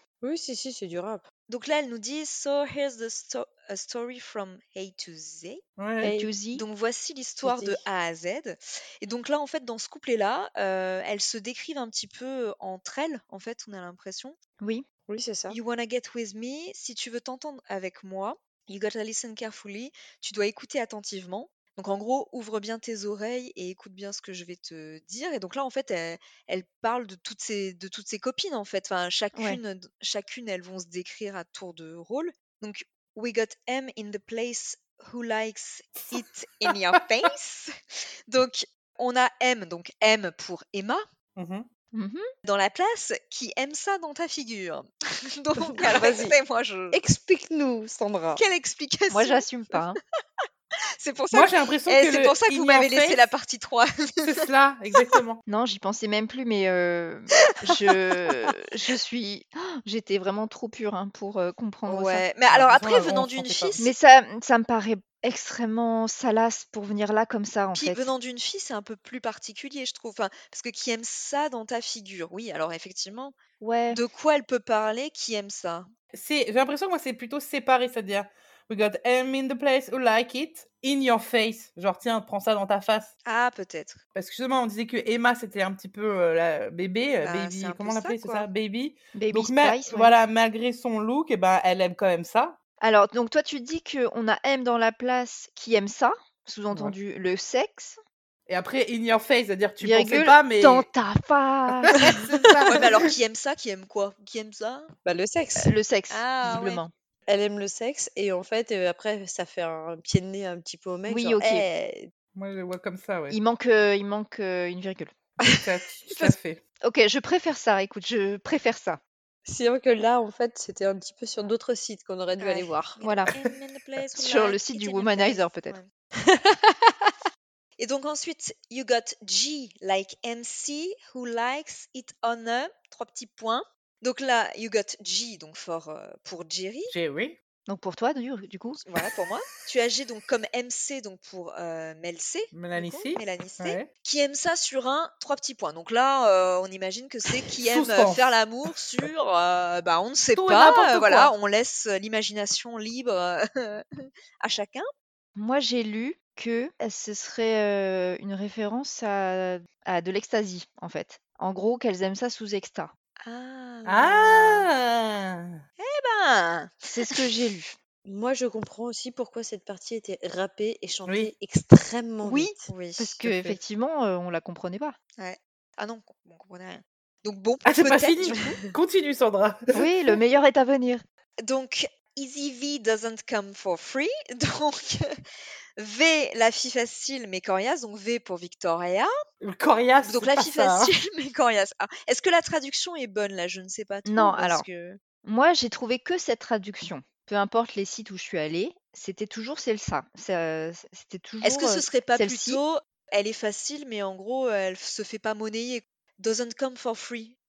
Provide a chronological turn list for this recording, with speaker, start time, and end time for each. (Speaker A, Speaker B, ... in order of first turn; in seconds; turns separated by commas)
Speaker A: 0.2-1.2, Speaker B: 1.5-5.6, Speaker C: 5.8-6.1, Speaker A: 6.0-6.3, Speaker D: 6.0-6.7, Speaker B: 6.5-14.4, Speaker A: 7.4-7.8, Speaker A: 15.1-15.6, Speaker B: 15.5-37.7, Speaker D: 29.4-29.6, Speaker C: 36.0-36.7, Speaker B: 38.3-41.0, Speaker C: 41.4-41.7, Speaker D: 41.9-42.2, Speaker B: 42.5-47.0, Speaker A: 45.6-46.4, Speaker A: 46.9-48.4, Speaker B: 48.4-49.8, Speaker D: 49.1-50.0, Speaker B: 51.0-55.2, Speaker C: 51.3-53.2, Speaker C: 54.2-55.4, Speaker D: 55.5-62.2, Speaker B: 61.9-63.9, Speaker C: 62.5-63.8, Speaker D: 63.8-68.1, Speaker B: 67.7-73.4, Speaker D: 73.6-74.0, Speaker B: 73.9-75.9, Speaker C: 76.1-83.1, Speaker B: 83.3-84.0, Speaker C: 84.2-92.6, Speaker B: 87.2-88.5, Speaker D: 89.2-90.1, Speaker D: 92.8-98.0, Speaker C: 98.5-100.9, Speaker D: 99.8-102.0, Speaker C: 101.8-102.9, Speaker B: 102.7-104.9, Speaker A: 105.0-105.7, Speaker D: 105.6-106.9, Speaker B: 106.1-106.8, Speaker A: 107.3-111.7, Speaker D: 111.1-111.7, Speaker B: 111.4-111.9, Speaker C: 112.3-113.4, Speaker D: 113.3-115.2, Speaker C: 115.5-116.6, Speaker D: 116.8-119.0, Speaker A: 119.5-123.0, Speaker B: 122.4-125.9, Speaker D: 123.0-123.3, Speaker D: 124.2-125.8, Speaker A: 126.3-127.1, Speaker B: 127.8-136.9, Speaker C: 136.9-137.4, Speaker D: 137.7-138.8, Speaker B: 138.8-154.9, Speaker C: 142.5-143.9, Speaker C: 147.7-148.3, Speaker C: 150.4-151.3, Speaker D: 155.4-162.9, Speaker B: 163.2-164.7, Speaker C: 163.9-165.6, Speaker B: 165.8-167.2, Speaker D: 166.9-167.8, Speaker A: 168.1-172.7, Speaker C: 171.1-171.3, Speaker D: 172.2-175.0, Speaker B: 172.7-173.6, Speaker B: 175.2-178.6, Speaker C: 177.6-179.9, Speaker D: 179.7-181.0, Speaker B: 181.4-185.2, Speaker B: 185.8-189.1, Speaker C: 189.4-190.9, Speaker B: 190.0-195.0, Speaker D: 194.1-194.7, Speaker D: 195.2-202.6, Speaker B: 201.4-207.3